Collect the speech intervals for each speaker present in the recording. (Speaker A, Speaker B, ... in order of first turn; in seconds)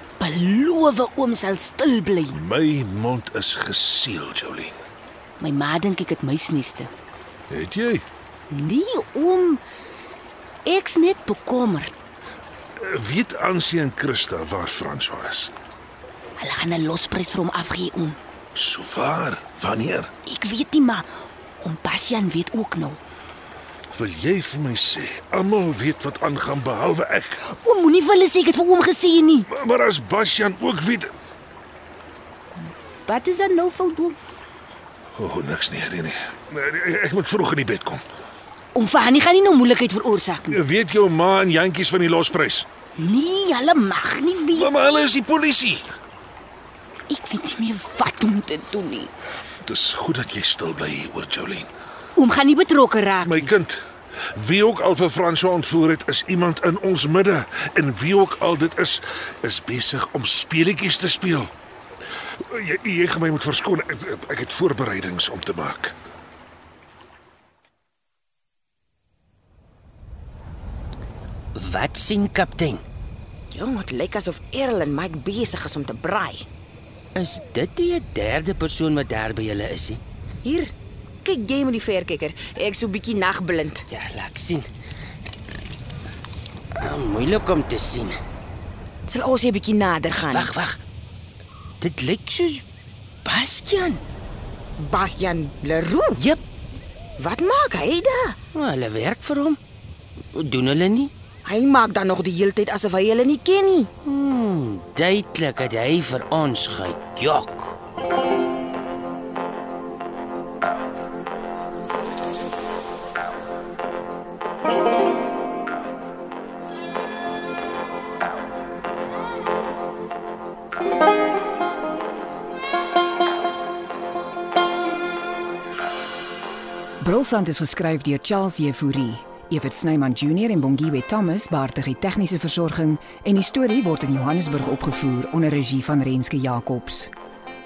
Speaker A: 0.2-2.4, 5.4-6.9, 8.5-9.6, 10.6-11.9, 16.4-18.2, 20.2-21.1, 21.6-23.0, 27.4-29.5, 33.0-34.2, 38.7-40.6, 43.0-44.7, 47.1-49.1, 52.1-53.5
Speaker B: 2.3-4.8, 7.5-8.1, 12.8-15.5, 18.6-20.1, 23.9-27.4, 29.5-31.1, 35.1-38.0, 40.5-42.6, 44.5-45.9, 49.6-51.7, 53.2-61.5, 62.4-65.9
Speaker C: 71.5-72.8, 77.1-80.0, 83.9-84.7, 86.8-88.2, 90.2-90.8, 91.8-92.6, 93.2-94.0, 98.5-99.6, 100.3-101.1, 104.0-107.8
Speaker D: 73.5-76.4, 80.4-80.7, 81.2-83.8, 89.1-90.5, 94.8-96.2, 97.2-98.3, 101.4-103.9
Speaker E: 127.0-137.1